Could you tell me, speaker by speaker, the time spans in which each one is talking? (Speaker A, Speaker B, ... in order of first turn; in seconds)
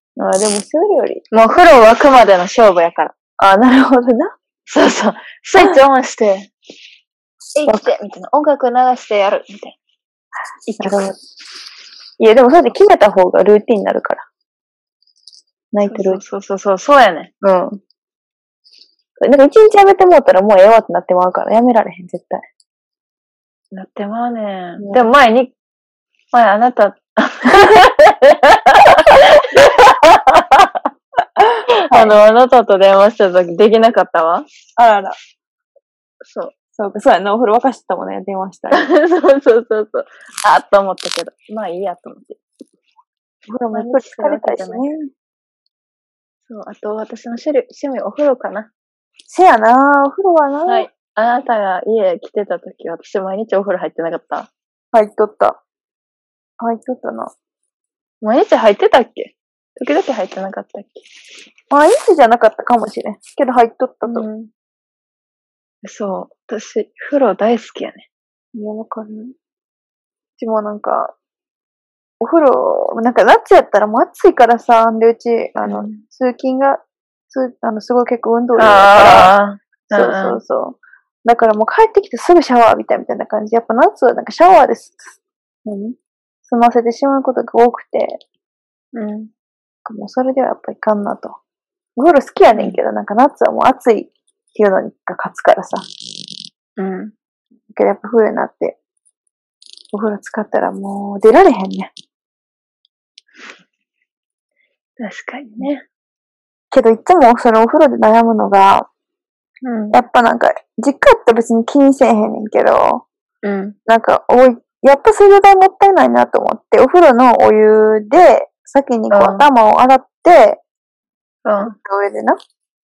Speaker A: 0.2-1.2, 3.4-4.3, 7.7-8.0, 10.8-11.2, 12.2-14.2, 15.7-16.2, 17.4-17.8, 19.2-22.5, 24.8-25.1, 27.5-27.8, 31.4-32.1, 34.8-35.2, 36.8-38.9, 43.5-45.1, 49.3-50.9, 54.9-55.6, 56.6-57.3, 61.7-64.3, 68.5-69.3, 70.4-71.2, 72.2-79.3, 79.9-85.1, 85.7-88.2, 89.9-91.4, 92.0-95.8, 97.7-98.8, 99.9-101.9, 106.7-108.9, 109.9-113.0, 113.9-120.6, 121.7-122.4
Speaker B: 1.3-3.1, 4.7-6.5, 7.6-9.8, 10.7-11.1, 15.8-17.3, 23.7-25.6, 26.3-30.9, 31.8-34.5, 36.2-36.5, 38.7-42.4, 43.7-45.0, 46.5-48.7, 50.7-54.5, 58.2-61.0, 64.0-64.5, 65.8-68.1, 75.7-76.0, 78.6-80.4, 88.9-89.3, 92.5-92.8, 96.8-97.1, 105.0-105.8, 109.6-110.0, 113.4-113.8, 119.1-119.5, 121.5-121.8